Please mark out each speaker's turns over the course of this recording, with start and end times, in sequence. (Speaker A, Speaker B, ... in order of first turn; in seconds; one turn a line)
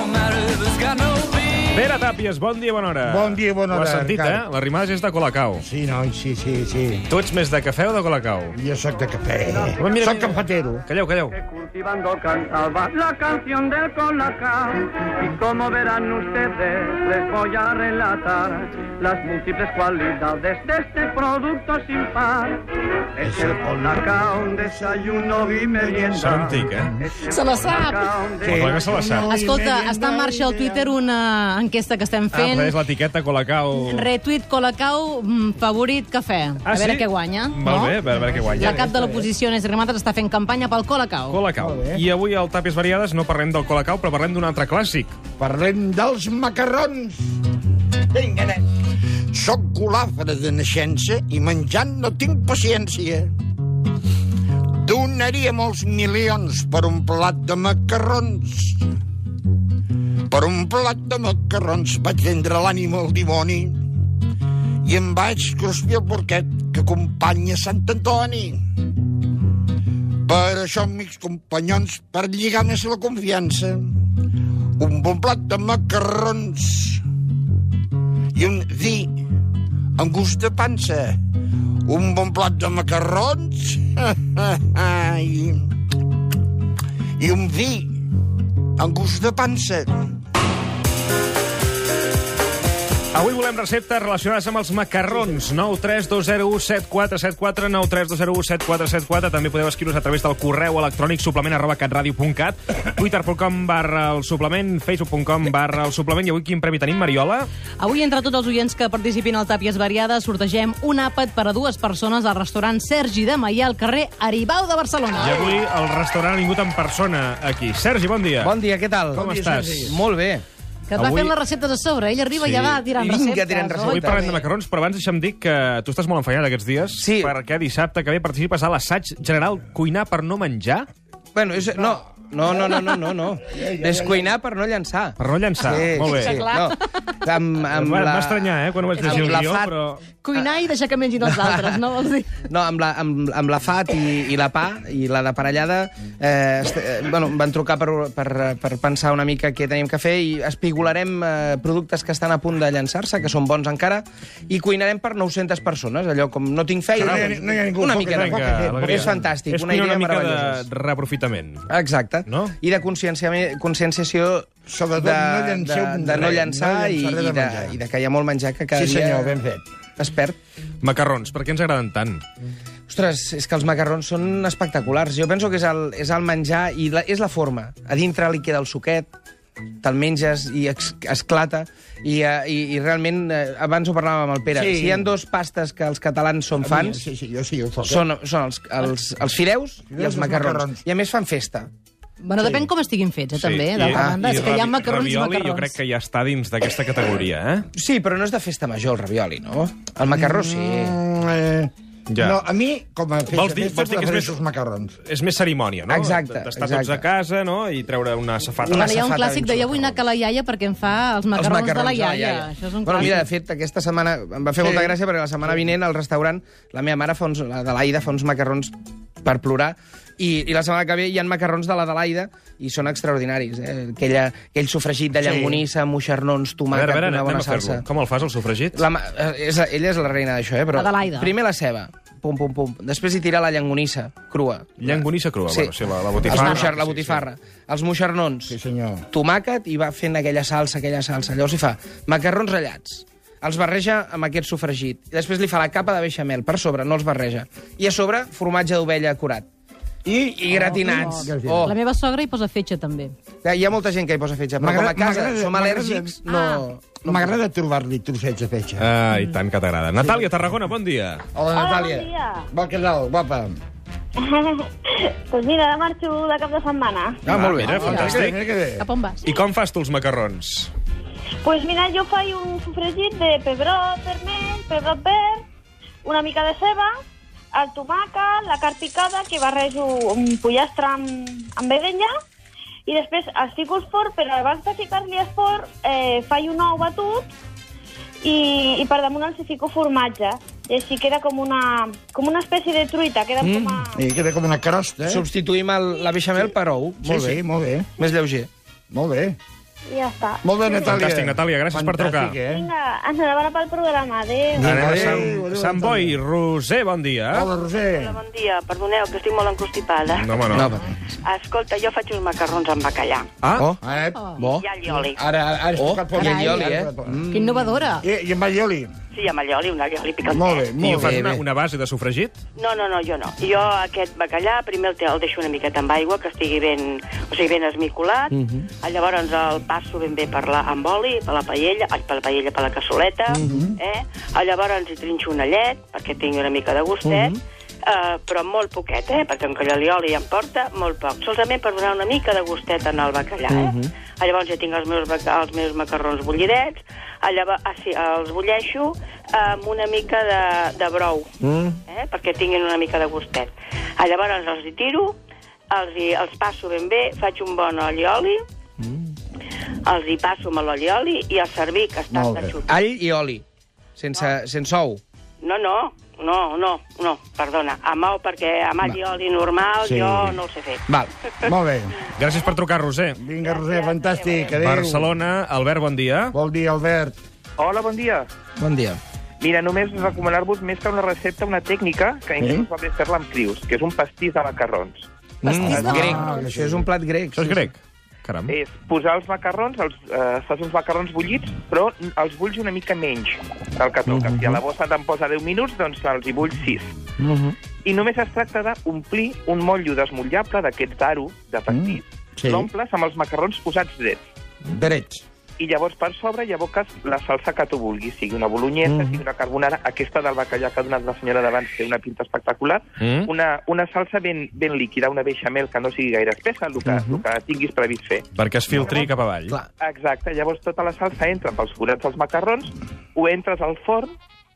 Speaker A: 1.7-5.6
Speaker B: 3.0-4.5
Speaker B: 5.6-7.0
Speaker A: 7.1-8.6
Speaker B: 8.5-10.8
Speaker C: 9.6-10.1
Speaker A: 9.8-11.4
Speaker C: 11.3-22.6
Speaker B: 23.2-26.9
Speaker C: 23.2-28.8
Speaker A: 26.2-26.9
Speaker D: 27.2-28.1
Speaker B: 28.4-30.9
Speaker A: 28.4-29.3
Speaker D: 29.3-32.8
Speaker A: 32.3-34.1
Speaker D: 33.7-38.0
Speaker A: 36.6-38.8
Speaker B: 38.2-39.3
Speaker D: 38.5-41.4
Speaker A: 41.3-45.2
Speaker B: 41.6-42.0
Speaker B: 45.4-47.3
Speaker B: 48.1-48.6
Speaker B: 49.3-53.3
Speaker B: 54.8-58.8
Speaker B: 60.3-63.8
Speaker B: 64.8-68.6
Speaker B: 70.2-73.9
Speaker B: 74.8-77.0
Speaker B: 78.3-79.1
Speaker B: 80.0-81.2
Speaker B: 81.8-85.7
Speaker B: 87.2-87.9
Speaker B: 88.8-89.9
Speaker A: 93.1-107.5
Speaker D: 107.8-115.6
Speaker A: 115.1-118.5
Speaker E: 118.4-119.2
Speaker A: 119.1-120.0
Speaker B: 119.1-120.0
Speaker E: 119.8-120.4
Speaker D: 120.9-124.4
Speaker A: 120.9-121.3
Speaker A: 122.3-122.8
Speaker E: 122.9-124.4
Speaker A: 123.9-130.9
Speaker E: 127.0-127.3
Speaker E: 131.3-139.7
Speaker B: 133.5-134.3
Speaker A: 135.2-136.5
Speaker D: 135.9-136.8
Speaker A: 137.6-140.0
Speaker D: 139.0-142.4
Speaker E: 141.2-141.7
Speaker E: 142.5-160.6
Speaker B: 156.9-159.1
Speaker A: 157.0-157.4
Speaker A: 158.0-161.7
Speaker E: 161.7-169.4
Speaker A: 162.2-162.6
Speaker B: 164.7-167.8
Speaker B: 168.7-169.6
Speaker E: 170.0-170.3
Speaker A: 170.8-172.2
Speaker E: 172.9-179.1
Speaker E: 179.8-187.0
Speaker B: 184.5-185.1
Speaker B: 186.6-188.0
Speaker E: 187.8-191.7
Speaker B: 189.9-190.8
Speaker D: 192.2-195.8
Speaker B: 192.4-192.7
Speaker A: 193.3-197.7
Speaker E: 193.9-194.2
Speaker E: 197.8-201.0
Speaker B: 200.1-204.9
Speaker A: 202.1-202.4
Speaker A: 203.3-204.4
Speaker A: 205.1-208.9
Speaker E: 205.9-207.0
Speaker E: 208.6-210.0
Speaker D: 208.7-213.2
Speaker E: 211.3-227.8
Speaker B: 214.5-215.0
Speaker B: 225.2-225.6
Speaker A: 226.7-228.8
Speaker E: 228.7-235.7
Speaker D: 230.7-231.3
Speaker A: 234.8-237.2
Speaker E: 236.2-238.6
Speaker D: 236.3-236.6
Speaker B: 238.5-239.1
Speaker E: 239.1-249.4
Speaker B: 250.0-251.7
Speaker E: 250.4-251.8
Speaker D: 250.5-253.1
Speaker E: 253.4-257.4
Speaker B: 254.6-256.2
Speaker D: 256.3-256.6
Speaker B: 257.0-258.9
Speaker A: 258.8-261.2
Speaker B: 261.3-263.5
Speaker F: 261.6-262.5
Speaker F: 264.2-267.2
Speaker E: 267.2-267.9
Speaker B: 267.3-268.8
Speaker A: 267.3-268.4
Speaker D: 267.7-268.1
Speaker D: 268.8-269.2
Speaker A: 269.2-270.7
Speaker F: 271.4-275.4
Speaker F: 276.0-276.9
Speaker F: 277.5-282.1
Speaker F: 282.9-287.3
Speaker F: 288.2-293.9
Speaker E: 293.4-293.8
Speaker B: 293.9-295.2
Speaker E: 295.0-297.4
Speaker B: 297.0-297.9
Speaker E: 298.0-298.5
Speaker B: 298.9-299.4
Speaker F: 299.9-300.9
Speaker B: 300.4-302.7
Speaker A: 300.8-302.4
Speaker F: 302.5-304.7
Speaker B: 304.5-306.2
Speaker E: 304.6-305.4
Speaker A: 304.7-307.5
Speaker B: 307.3-308.2
Speaker G: 307.9-310.3
Speaker A: 310.1-310.7
Speaker E: 310.5-310.9
Speaker G: 311.2-313.3
Speaker A: 313.4-313.7
Speaker B: 313.8-314.3
Speaker E: 314.4-317.6
Speaker G: 314.4-315.2
Speaker B: 315.2-317.2
Speaker D: 316.1-316.7
Speaker D: 317.3-318.0
Speaker B: 318.0-318.9
Speaker G: 319.1-320.8
Speaker B: 320.3-321.4
Speaker E: 320.8-321.4
Speaker A: 320.9-322.4
Speaker G: 322.6-337.3
Speaker E: 328.3-328.6
Speaker E: 333.3-333.8
Speaker E: 337.0-337.4
Speaker G: 337.9-351.3
Speaker E: 343.5-343.9
Speaker E: 351.4-351.8
Speaker G: 351.9-355.1
Speaker G: 355.7-358.4
Speaker G: 359.8-362.7
Speaker B: 362.1-362.6
Speaker E: 362.7-363.4
Speaker E: 364.0-365.0
Speaker G: 365.4-370.8
Speaker B: 369.8-370.4
Speaker B: 371.4-372.0
Speaker A: 372.1-373.3
Speaker B: 373.2-375.1
Speaker G: 373.4-374.5
Speaker A: 374.6-376.3
Speaker B: 376.3-377.2
Speaker H: 377.6-378.3
Speaker E: 378.6-379.0
Speaker H: 379.4-385.1
Speaker B: 382.4-382.7
Speaker E: 385.4-387.7
Speaker B: 385.5-386.9
Speaker D: 385.5-386.3
Speaker H: 385.7-386.1
Speaker A: 387.4-388.6
Speaker H: 388.5-396.9
Speaker E: 394.1-394.6
Speaker E: 397.2-397.5
Speaker H: 397.8-404.2
Speaker B: 401.7-402.7
Speaker B: 404.7-405.2
Speaker H: 405.6-418.2
Speaker E: 408.9-409.2
Speaker A: 413.0-413.3
Speaker E: 416.8-417.2
Speaker A: 418.4-419.6
Speaker H: 419.8-424.1